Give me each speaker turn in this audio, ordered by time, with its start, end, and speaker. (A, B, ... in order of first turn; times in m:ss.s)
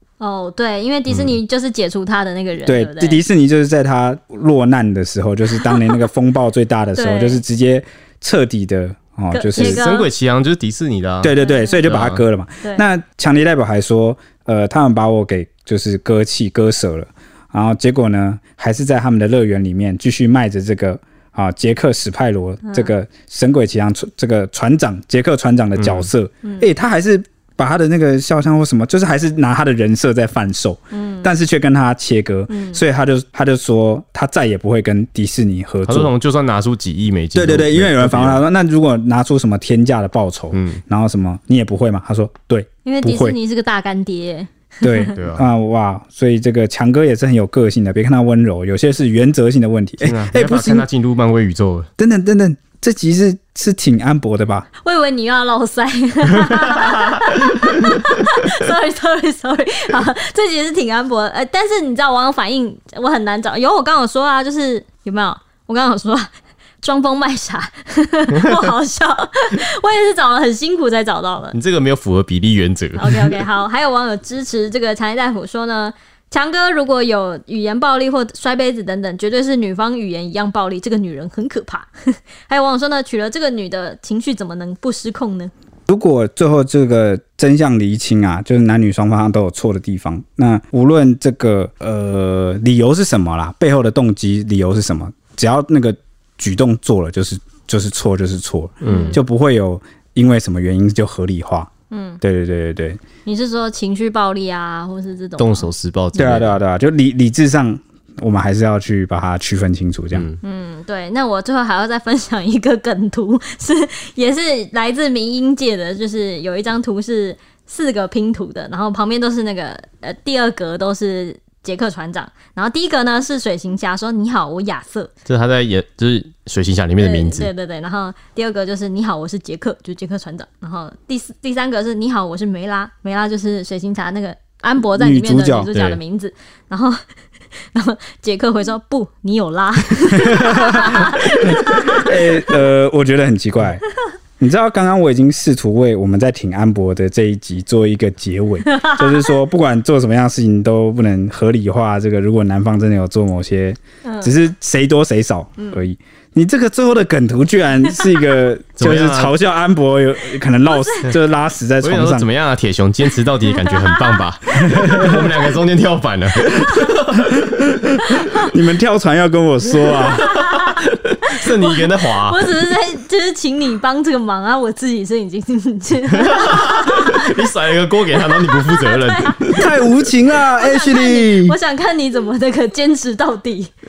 0:00.2-0:03.2 A
0:01.1-0:01.4 B
0:02.6-0:09.8 C
0:06.9-0:07.4 A
0:09.3-0:10.1 A
0:09.6-0:11.3 B
0:11.2-0:36.1 C
0:11.4-0:11.8 A
0:11.8-0:12.2 B
0:22.6-0:22.9 A
0:25.8-0:26.1 B
0:30.9-0:31.3 A
0:32.5-0:32.8 A
0:35.8-0:38.4 B
0:37.3-0:43.4 C
0:40.5-0:40.8 B
0:42.8-0:45.1 A
0:44.8-0:50.8 C
0:45.1-0:45.4 B
0:50.0-0:51.9 B
0:52.0-0:54.7 C
0:54.8-1:06.3 A
0:56.5-0:57.7 B
1:06.8-1:11.6 A
1:08.4-1:08.7 B
1:11.5-1:13.4 B
1:13.0-1:25.5 A
1:25.9-1:41.7 C
1:38.8-1:39.2 B
1:38.8-1:39.2 A
1:41.9-1:42.2 A
1:42.2-1:43.0 C
1:43.2-1:45.7 A
1:45.4-1:46.6 B
1:46.1-1:50.3 C
1:50.1-1:50.4 B
1:50.4-2:05.1 A
2:05.2-2:07.5 B
2:07.0-2:17.0 A
2:15.0-2:15.7 C
2:15.7-2:16.0 B
2:17.7-2:22.5 A
2:20.2-2:23.8 C
2:24.4-2:42.3 C
2:28.7-2:29.3 A
2:34.0-2:34.3 A
2:35.6-2:35.8 A
2:38.8-2:39.3 B
2:40.7-2:41.1 A
2:41.8-2:47.7 B
2:43.5-2:44.9 A
2:44.6-2:45.2 C
2:46.5-2:46.9 A
2:48.0-2:48.5 A
2:48.3-2:50.4 C
2:49.9-2:57.3 A
2:50.3-2:52.4 B
2:56.1-2:59.8 B
2:58.5-2:59.8 A
2:59.6-3:01.6 C
3:00.3-3:03.7 A